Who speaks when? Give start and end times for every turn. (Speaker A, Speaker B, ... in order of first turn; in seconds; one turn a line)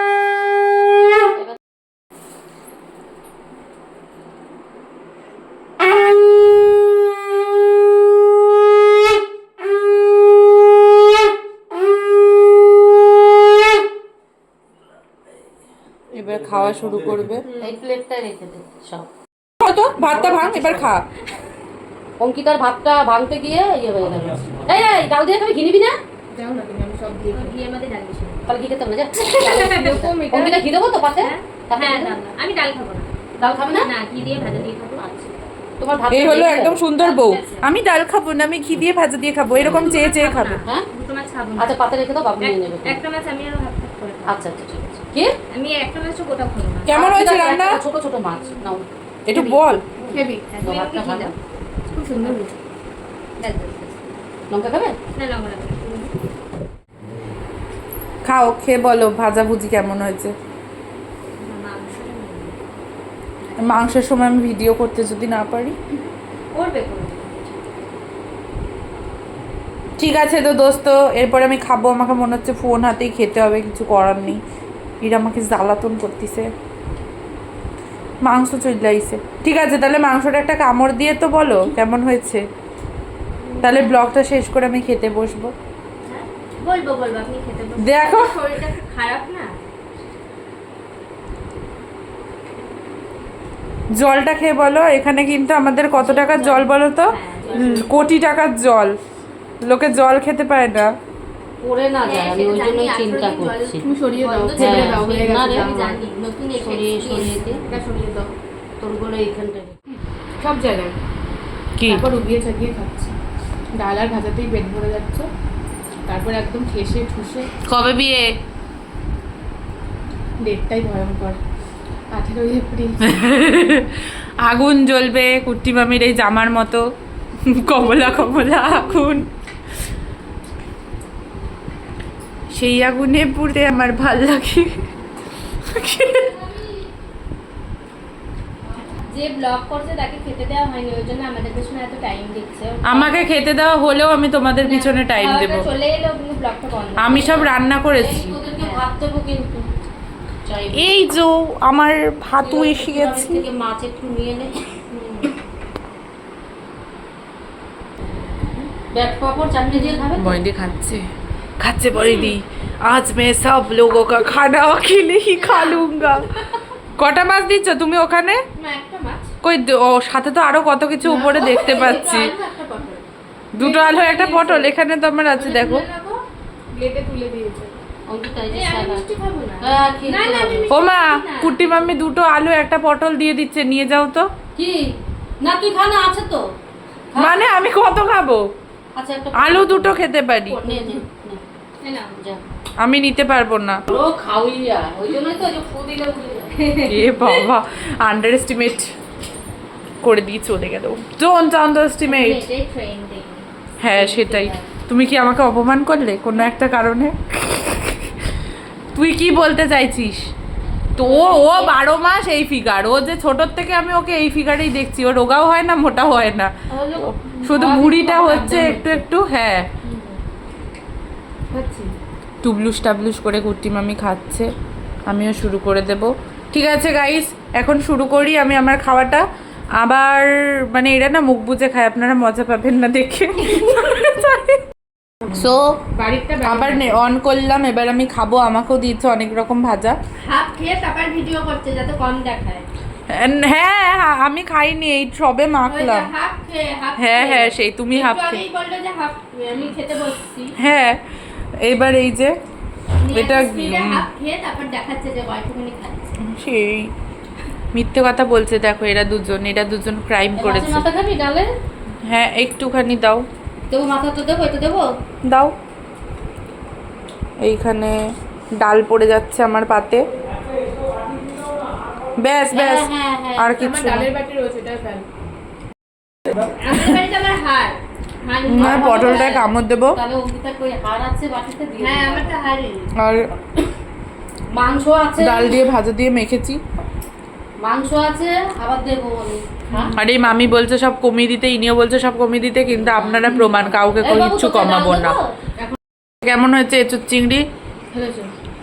Speaker A: 16.1-17.5
Speaker B: 17.4-17.8
Speaker C: 17.6-19.1
Speaker A: 19.6-21.0
Speaker C: 22.2-26.0
Speaker D: 26.3-27.5
Speaker B: 27.3-28.5
Speaker C: 28.5-32.2
Speaker D: 29.3-30.6
Speaker B: 29.4-30.5
Speaker B: 31.0-33.1
Speaker C: 33.4-33.9
Speaker B: 33.7-35.3
Speaker C: 35.0-36.8
Speaker A: 36.1-40.6
Speaker B: 37.0-37.7
Speaker C: 39.6-40.0
Speaker B: 39.6-41.8
Speaker C: 41.5-43.0
Speaker B: 42.4-44.4
Speaker C: 44.2-45.4
Speaker B: 45.5-47.0
Speaker A: 46.9-47.8
Speaker C: 46.9-48.8
Speaker B: 48.3-48.8
Speaker A: 49.3-49.8
Speaker B: 49.3-49.9
Speaker C: 50.0-51.3
Speaker D: 50.1-50.5
Speaker B: 50.4-51.3
Speaker B: 51.9-52.5
Speaker D: 52.1-52.4
Speaker B: 53.4-54.1
Speaker C: 54.5-55.0
Speaker B: 55.1-56.1
Speaker A: 58.2-60.3
Speaker B: 61.4-62.6
Speaker B: 63.4-64.0
Speaker A: 63.6-65.8
Speaker B: 66.5-67.6
Speaker A: 70.0-74.4
Speaker A: 75.0-76.5
Speaker A: 78.2-82.4
Speaker B: 83.4-84.0
Speaker A: 83.6-85.5
Speaker B: 86.0-89.5
Speaker A: 87.8-88.4
Speaker A: 93.9-99.0
Speaker B: 95.9-97.9
Speaker A: 99.6-100.9
Speaker C: 101.6-106.0
Speaker B: 102.0-107.6
Speaker D: 103.8-105.8
Speaker C: 106.5-107.6
Speaker D: 107.6-108.3
Speaker C: 108.8-109.8
Speaker D: 110.4-110.9
Speaker A: 111.8-112.0
Speaker D: 111.9-113.1
Speaker D: 113.8-115.3
Speaker D: 116.0-117.5
Speaker A: 117.7-118.3
Speaker D: 120.4-121.4
Speaker D: 122.1-123.0
Speaker A: 123.0-126.8
Speaker A: 127.5-129.3
Speaker A: 132.5-134.7
Speaker A: 135.7-136.3
Speaker C: 135.8-136.7
Speaker B: 139.1-143.2
Speaker A: 142.8-145.7
Speaker B: 144.6-147.6
Speaker A: 147.0-148.3
Speaker C: 147.9-149.7
Speaker B: 148.6-148.8
Speaker C: 150.4-151.0
Speaker A: 150.7-153.4
Speaker C: 152.4-154.8
Speaker B: 154.9-155.3
Speaker C: 158.9-160.4
Speaker B: 159.7-160.1
Speaker A: 160.2-161.0
Speaker A: 161.6-166.3
Speaker B: 161.9-162.3
Speaker B: 165.4-166.4
Speaker A: 166.9-168.4
Speaker B: 168.6-169.3
Speaker A: 169.4-172.3
Speaker D: 171.0-171.7
Speaker B: 171.3-173.0
Speaker A: 173.5-175.8
Speaker B: 173.6-174.7
Speaker B: 175.3-176.2
Speaker D: 176.7-177.8
Speaker C: 178.1-179.1
Speaker B: 178.5-182.0
Speaker C: 179.6-180.7
Speaker A: 180.7-184.3
Speaker C: 184.6-186.5
Speaker C: 187.1-187.4
Speaker A: 187.1-188.5
Speaker C: 188.9-190.0
Speaker A: 189.3-190.6
Speaker B: 190.5-191.0
Speaker C: 190.5-191.4
Speaker B: 191.8-192.3
Speaker A: 192.8-193.8
Speaker C: 193.9-196.7
Speaker B: 196.6-197.5
Speaker A: 196.8-198.9
Speaker A: 200.0-202.4
Speaker B: 202.0-204.6
Speaker A: 203.8-208.1
Speaker A: 208.9-210.3
Speaker A: 210.9-219.7
Speaker B: 211.0-211.8
Speaker D: 216.7-219.0
Speaker D: 219.8-220.2
Speaker D: 221.5-221.9
Speaker A: 222.4-224.5
Speaker A: 225.1-229.2
Speaker A: 229.8-234.6
Speaker B: 233.4-234.3
Speaker A: 235.3-235.8
Speaker D: 235.9-237.0
Speaker A: 236.4-240.0
Speaker B: 240.2-242.7
Speaker A: 243.1-246.1
Speaker B: 245.6-250.5
Speaker A: 247.0-248.4
Speaker A: 250.6-251.0
Speaker A: 251.6-252.3
Speaker B: 253.0-256.1
Speaker A: 253.1-254.0
Speaker A: 256.2-256.9
Speaker A: 257.7-260.8
Speaker C: 260.3-261.5
Speaker A: 262.1-263.2
Speaker C: 263.7-264.9
Speaker A: 265.3-265.5
Speaker A: 267.4-268.0
Speaker A: 268.6-270.0
Speaker A: 272.2-274.1
Speaker C: 272.5-273.6
Speaker D: 273.6-275.1
Speaker B: 276.5-279.4
Speaker A: 278.5-280.0
Speaker C: 278.6-279.1
Speaker C: 279.9-282.4
Speaker B: 281.8-282.9
Speaker A: 283.0-283.3
Speaker C: 284.5-285.6
Speaker A: 285.2-286.6
Speaker C: 287.6-289.9
Speaker A: 289.9-295.2
Speaker C: 292.8-294.7
Speaker B: 294.3-295.2
Speaker A: 296.2-297.4
Speaker D: 297.9-298.3